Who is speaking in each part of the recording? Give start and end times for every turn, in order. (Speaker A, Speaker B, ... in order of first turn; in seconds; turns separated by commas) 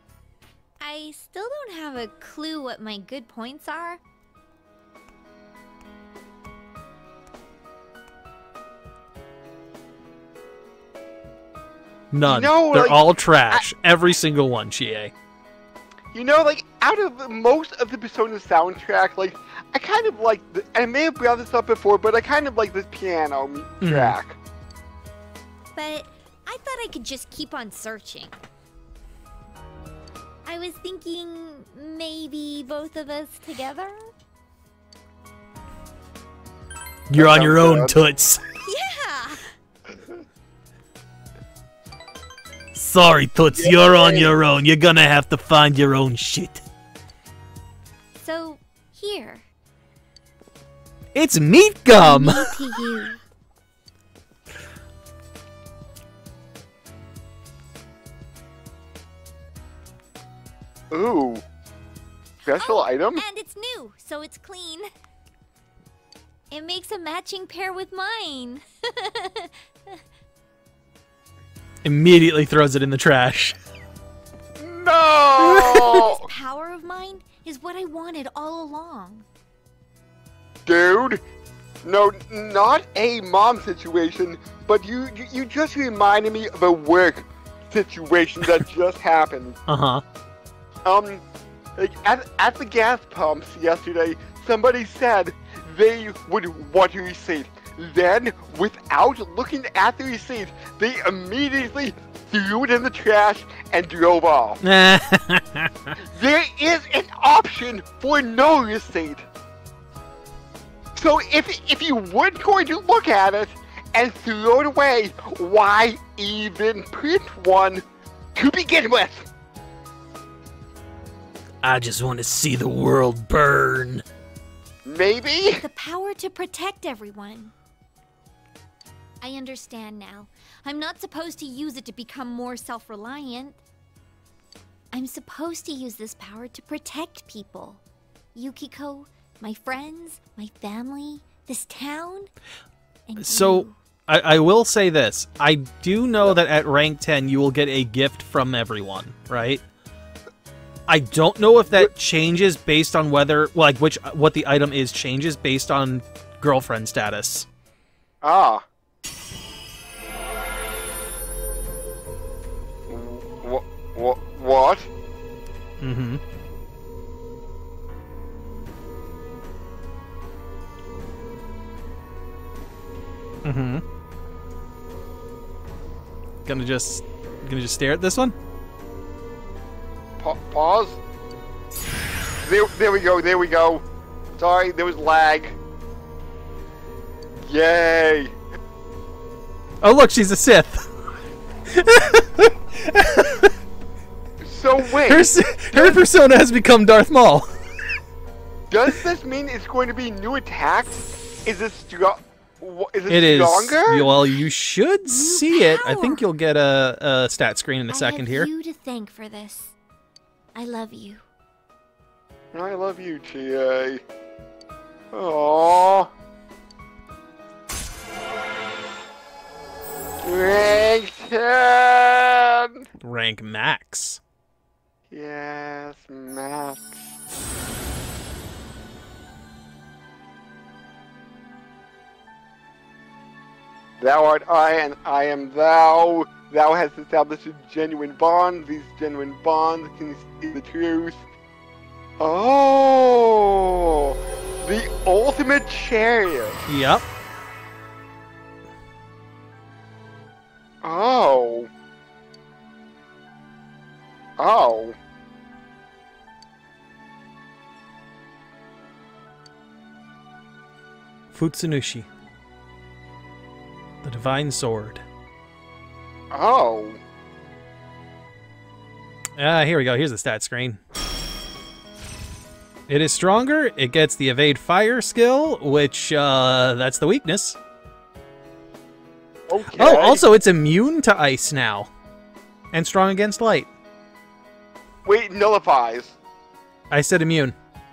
Speaker A: 0.8-4.0, Speaker B: 12.1-15.1, Speaker C: 12.2-13.7, Speaker C: 16.1-24.4, Speaker B: 23.8-24.2, Speaker A: 25.7-28.3, Speaker A: 30.4-34.0, Speaker B: 37.1-38.4, Speaker C: 37.1-38.0, Speaker A: 38.6-39.5, Speaker B: 42.7-46.6, Speaker C: 43.6-44.4, Speaker A: 48.2-49.4, Speaker B: 51.1-52.6, Speaker A: 51.9-53.2, Speaker C: 60.9-61.4, Speaker C: 62.4-63.2, Speaker A: 62.6-64.9, Speaker A: 66.5-70.0, Speaker B: 71.8-73.5, Speaker C: 74.6-76.2, Speaker B: 75.4-76.0, Speaker A: 75.8-79.2, Speaker C: 80.7-81.2, Speaker C: 81.8-89.6, Speaker B: 89.7-90.0, Speaker C: 90.8-91.2, Speaker C: 91.8-104.6, Speaker B: 104.6-105.9, Speaker C: 106.0-109.3, Speaker C: 110.9-117.8, Speaker C: 118.3-119.3, Speaker B: 121.6-124.0, Speaker C: 124.8-125.6, Speaker A: 125.6-127.5, Speaker A: 129.2-133.6, Speaker A: 134.9-137.8, Speaker A: 138.3-142.3, Speaker A: 143.1-143.7, Speaker B: 143.2-149.6, Speaker B: 150.9-157.4, Speaker C: 158.2-158.6, Speaker C: 162.9-164.9, Speaker B: 165.8-166.2, Speaker B: 173.4-173.8, Speaker B: 176.4-178.3, Speaker C: 180.2-181.0, Speaker C: 182.4-183.8, Speaker C: 184.4-185.6, Speaker C: 187.4-188.3, Speaker B: 189.8-190.8, Speaker B: 191.7-193.5, Speaker C: 194.4-196.0, Speaker B: 195.0-197.5, Speaker C: 198.7-204.1, Speaker B: 203.1-208.5, Speaker A: 205.1-206.2, Speaker A: 207.9-209.7, Speaker A: 210.5-211.2, Speaker C: 212.5-214.0, Speaker C: 215.1-216.1, Speaker C: 220.2-222.8, Speaker B: 223.0-224.2, Speaker C: 225.1-227.0, Speaker C: 234.0-241.2, Speaker C: 242.2-246.6, Speaker B: 246.7-247.0, Speaker C: 250.8-251.7, Speaker C: 254.4-255.0, Speaker B: 261.3-262.1, Speaker B: 264.0-265.0, Speaker C: 266.3-267.0, Speaker B: 269.4-270.8, Speaker B: 272.9-277.6, Speaker C: 279.5-280.2, Speaker B: 279.7-281.9, Speaker B: 282.7-283.7, Speaker C: 285.0-286.2, Speaker B: 286.9-287.5